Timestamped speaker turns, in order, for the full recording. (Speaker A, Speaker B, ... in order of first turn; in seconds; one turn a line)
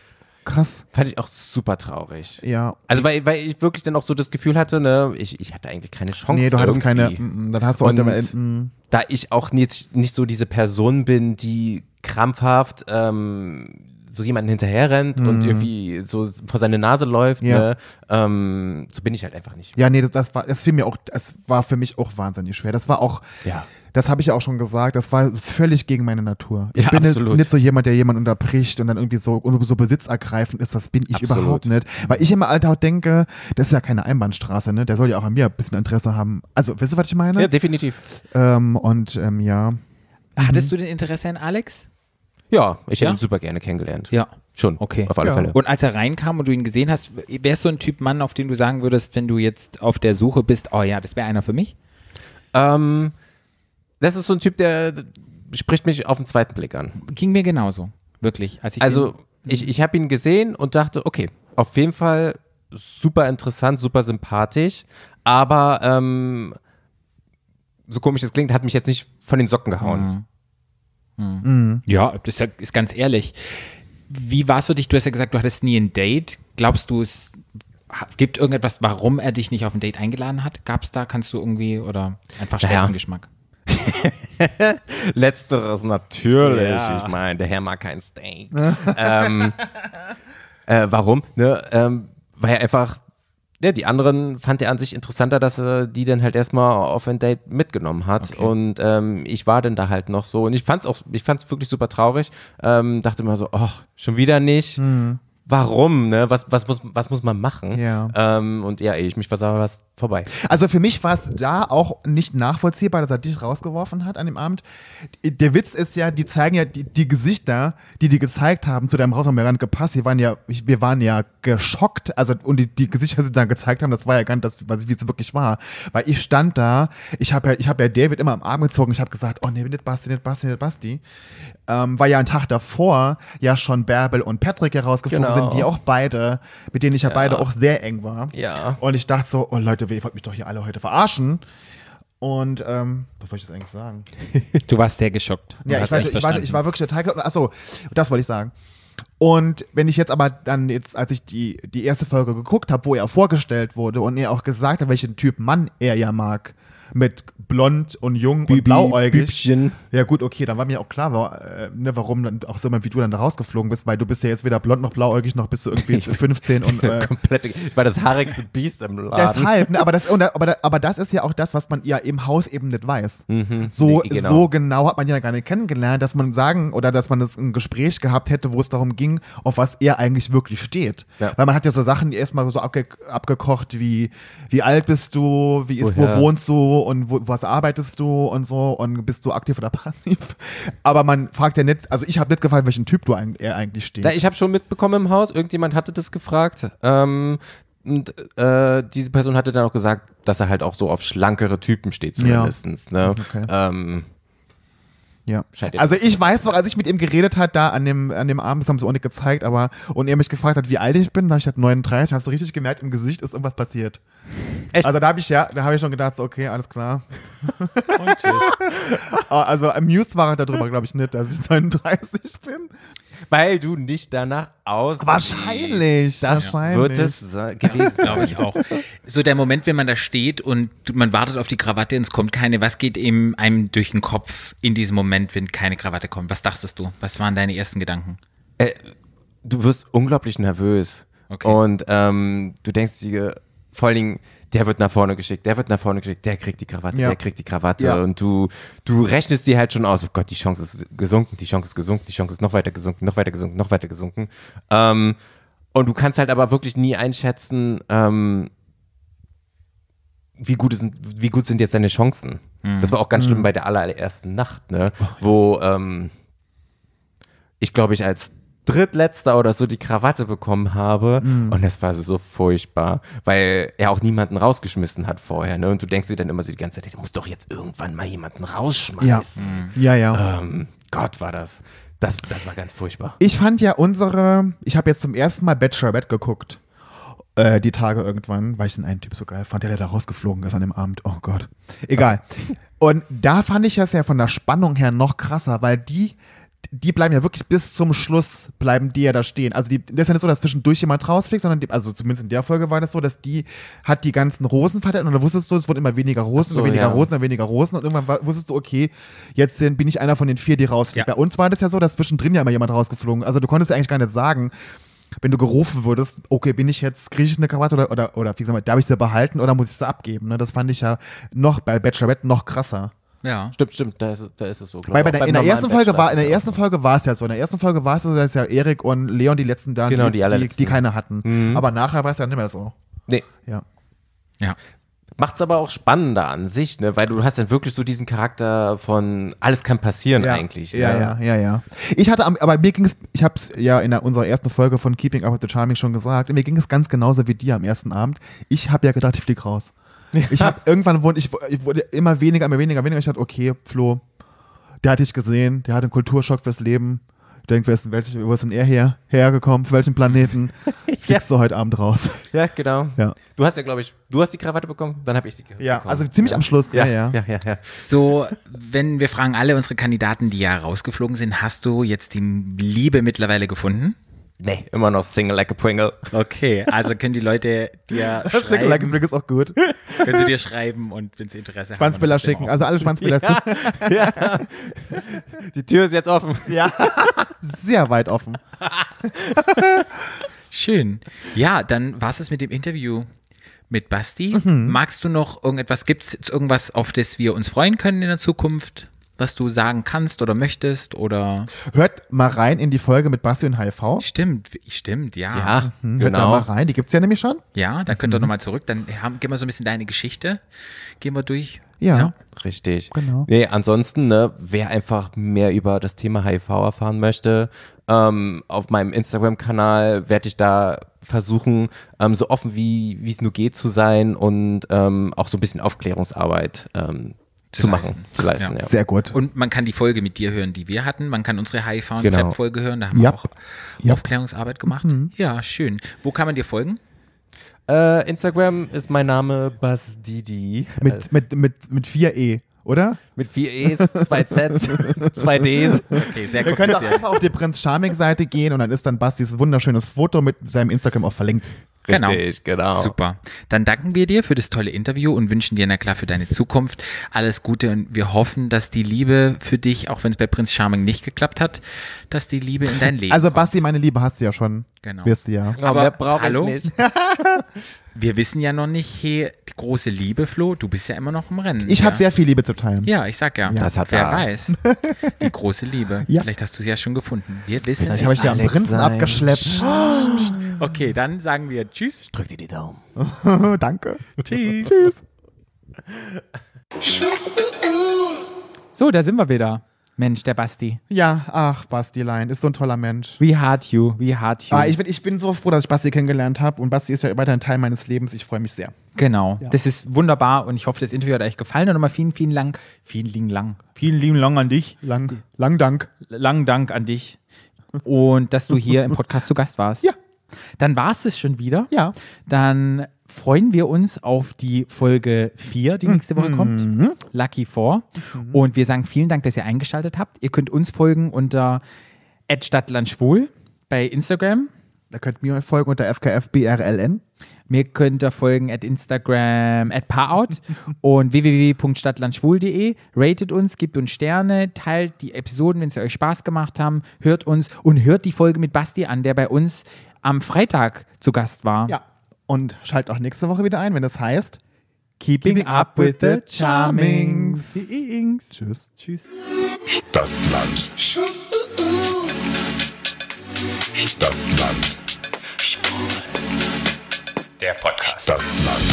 Speaker A: 0.5-0.8
Speaker B: 0.9-7.2
Speaker A: 2.4-3.1
Speaker A: 6.3-8.7
Speaker B: 7.8-8.3
Speaker B: 8.9-19.8
Speaker A: 15.2-15.7
Speaker A: 17.4-17.7
Speaker A: 19.8-23.3
Speaker A: 23.9-37.5
Speaker B: 26.8-27.5
Speaker B: 31.1-32.2
Speaker B: 37.4-38.0
Speaker A: 38.3-39.8
Speaker A: 40.4-40.7
Speaker C: 40.4-41.9
Speaker B: 42.5-45.6
Speaker C: 44.1-51.7
Speaker A: 45.2-45.5
Speaker B: 52.5-53.1
Speaker B: 54.0-57.0
Speaker C: 57.0-59.7
Speaker B: 58.8-66.6
Speaker B: 67.9-70.1
Speaker C: 69.8-70.3
Speaker C: 71.2-77.4
Speaker A: 71.4-71.8
Speaker C: 77.9-83.3
Speaker B: 82.6-83.0
Speaker B: 83.7-89.7
Speaker C: 86.4-87.2
Speaker A: 88.6-89.3
Speaker B: 90.7-93.0
Speaker B: 93.6-104.8
Speaker A: 104.8-105.2
Speaker B: 105.5-110.3
Speaker A: 107.7-108.2
Speaker A: 110.3-114.6
Speaker A: 115.2-131.0
Speaker A: 131.7-141.4
Speaker B: 135.1-135.7
Speaker B: 137.1-137.5
Speaker B: 138.3-138.8
Speaker A: 142.2-144.1
Speaker C: 144.7-146.6
Speaker A: 145.7-148.5
Speaker B: 145.8-146.1
Speaker A: 149.2-167.1
Speaker B: 158.5-159.8
Speaker B: 165.8-169.8
Speaker A: 169.1-194.2
Speaker B: 173.3-174.5
Speaker B: 185.8-186.3
Speaker B: 194.0-204.1
Speaker A: 202.2-203.5
Speaker A: 205.3-214.0
Speaker B: 205.6-206.0
Speaker A: 214.8-222.7
Speaker C: 218.0-218.5
Speaker B: 218.1-218.6
Speaker B: 223.3-228.5
Speaker A: 225.0-228.3
Speaker C: 227.6-238.2
Speaker B: 238.6-238.9
Speaker B: 239.4-255.2
Speaker C: 241.3-241.6
Speaker B: 255.7-258.5
Speaker B: 260.4-266.1
Speaker C: 262.6-263.0
Speaker A: 263.2-263.5
Speaker B: 267.6-283.2
Speaker A: 271.2-271.6
Speaker A: 279.0-280.2
Speaker C: 279.4-279.8
Speaker A: 283.2-286.6
Speaker A: 287.4-292.2
Speaker A: 292.8-314.5
Speaker B: 306.4-307.1
Speaker A: 315.2-322.9
Speaker C: 323.2-323.5
Speaker B: 323.6-326.6
Speaker A: 324.9-332.8
Speaker B: 329.9-331.6
Speaker B: 335.2-341.2
Speaker A: 340.2-349.7
Speaker B: 350.1-350.5
Speaker A: 350.3-354.0
Speaker A: 354.8-362.2
Speaker B: 360.9-361.2
Speaker B: 362.3-368.4
Speaker A: 365.6-367.2
Speaker C: 367.8-374.0
Speaker B: 374.4-376.1
Speaker C: 376.1-379.0
Speaker A: 378.3-379.6
Speaker B: 379.7-380.1
Speaker C: 380.0-382.6
Speaker A: 381.8-384.5
Speaker B: 383.0-387.3
Speaker A: 386.5-388.4
Speaker B: 388.6-389.7
Speaker A: 389.1-389.9
Speaker C: 390.5-393.1
Speaker C: 393.7-401.5
Speaker A: 394.3-394.8
Speaker A: 401.6-404.0
Speaker C: 404.0-405.6
Speaker B: 405.3-406.5
Speaker A: 405.6-408.3
Speaker C: 407.6-410.4
Speaker C: 411.0-412.1
Speaker A: 411.8-412.1
Speaker B: 412.3-428.7
Speaker A: 412.9-413.3
Speaker C: 427.5-428.5
Speaker A: 428.6-429.1
Speaker C: 429.1-436.8
Speaker B: 432.0-432.4
Speaker A: 432.9-433.2
Speaker A: 434.7-435.1
Speaker B: 437.7-441.1
Speaker A: 440.8-443.0
Speaker B: 443.1-446.9
Speaker A: 443.6-451.5
Speaker C: 446.0-447.1
Speaker B: 451.9-452.9
Speaker C: 451.9-463.6
Speaker A: 463.1-465.6
Speaker C: 464.8-466.6
Speaker B: 465.6-466.8
Speaker A: 466.8-467.4
Speaker C: 467.9-472.0
Speaker A: 471.7-472.9
Speaker C: 472.9-474.6
Speaker A: 473.4-473.7
Speaker B: 473.6-474.3
Speaker A: 474.5-475.3
Speaker C: 475.2-478.4
Speaker B: 477.8-480.5
Speaker A: 477.8-480.6
Speaker C: 480.5-482.1
Speaker B: 482.1-482.8
Speaker A: 483.0-485.0
Speaker C: 484.2-485.0
Speaker C: 488.8-490.8
Speaker A: 490.9-493.2
Speaker C: 493.2-494.8
Speaker A: 494.5-498.7
Speaker C: 498.9-504.8
Speaker A: 504.8-505.9
Speaker C: 506.1-507.2
Speaker C: 507.8-509.9
Speaker A: 508.7-508.9
Speaker C: 510.6-511.7
Speaker C: 512.3-521.6
Speaker A: 515.9-517.0
Speaker A: 518.1-518.4
Speaker C: 522.3-524.5
Speaker A: 524.9-527.0
Speaker C: 527.5-541.8
Speaker A: 541.7-544.4
Speaker A: 545.0-547.7
Speaker C: 545.2-549.1
Speaker A: 548.3-548.7
Speaker C: 557.4-558.5